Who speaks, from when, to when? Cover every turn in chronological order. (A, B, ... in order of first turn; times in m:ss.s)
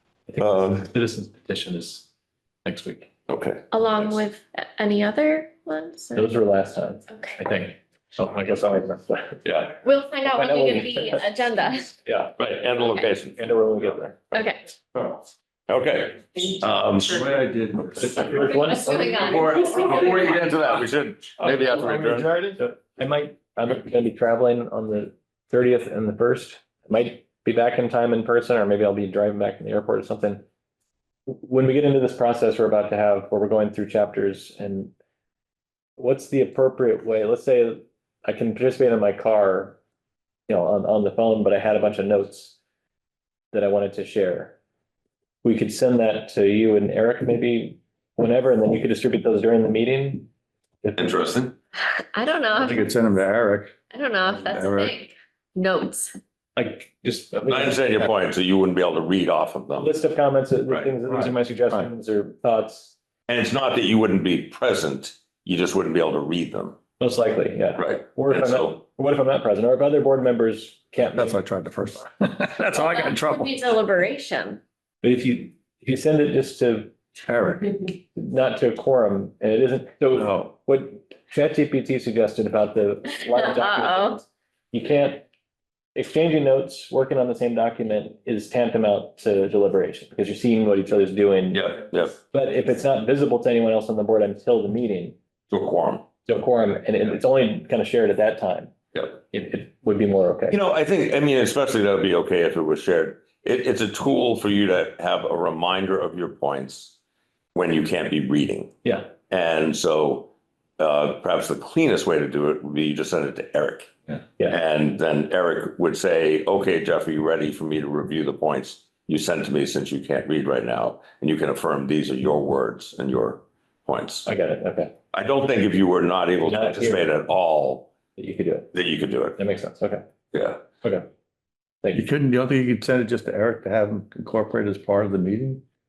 0:00.3-0:02.1 A
0:00.4-0:00.9 B
0:02.6-0:03.1 A
0:03.3-0:04.2 B
0:03.7-0:06.3 C
0:06.2-0:09.4 A
0:07.1-0:07.4 C
0:09.4-0:09.8 B
0:09.8-0:12.0 C
0:10.3-0:11.3 A
0:12.0-0:12.4 A
0:12.4-0:13.4 B
0:13.4-0:14.2 A
0:14.3-0:14.7 C
0:15.0-0:17.2 B
0:17.0-0:18.5 D
0:18.0-0:19.4 A
0:18.4-0:20.5 C
0:19.1-0:22.3 B
0:21.4-0:22.6 D
0:22.6-0:30.4 A
0:31.3-0:34.9 A
0:36.0-0:39.8 A
0:40.5-0:42.6 A
0:43.5-0:44.6 A
0:45.4-0:50.3 A
0:51.0-0:51.6 B
0:51.9-0:52.9 C
0:52.5-0:53.8 D
0:53.9-0:56.2 C
0:54.3-0:54.9 D
0:56.6-0:57.9 A
0:57.4-1:00.0 B
0:59.8-1:03.0 A
1:00.7-1:01.0 B
1:01.1-1:01.9 D
1:03.3-1:06.8 B
1:07.0-1:11.4 A
1:07.8-1:08.8 B
1:11.1-1:13.6 D
1:12.7-1:14.6 C
1:15.0-1:16.9 A
1:17.2-1:17.8 D
1:18.1-1:25.2 A
1:20.1-1:20.5 D
1:23.1-1:24.2 C
1:26.0-1:35.2 A
1:31.5-1:32.2 B
1:35.5-1:36.0 B
1:36.3-1:38.7 A
1:38.9-1:39.2 B
1:39.3-1:40.6 A
1:40.5-1:47.0 B
1:47.5-1:48.7 B
1:48.8-1:49.1 A
1:49.3-2:04.3 B
2:04.3-2:04.9 A
2:05.1-2:07.9 B
2:06.4-2:07.1 A
2:08.2-2:08.7 A
2:08.7-2:09.4 B
2:09.4-2:10.0 A
2:10.3-2:10.6 B
2:11.9-2:15.6 D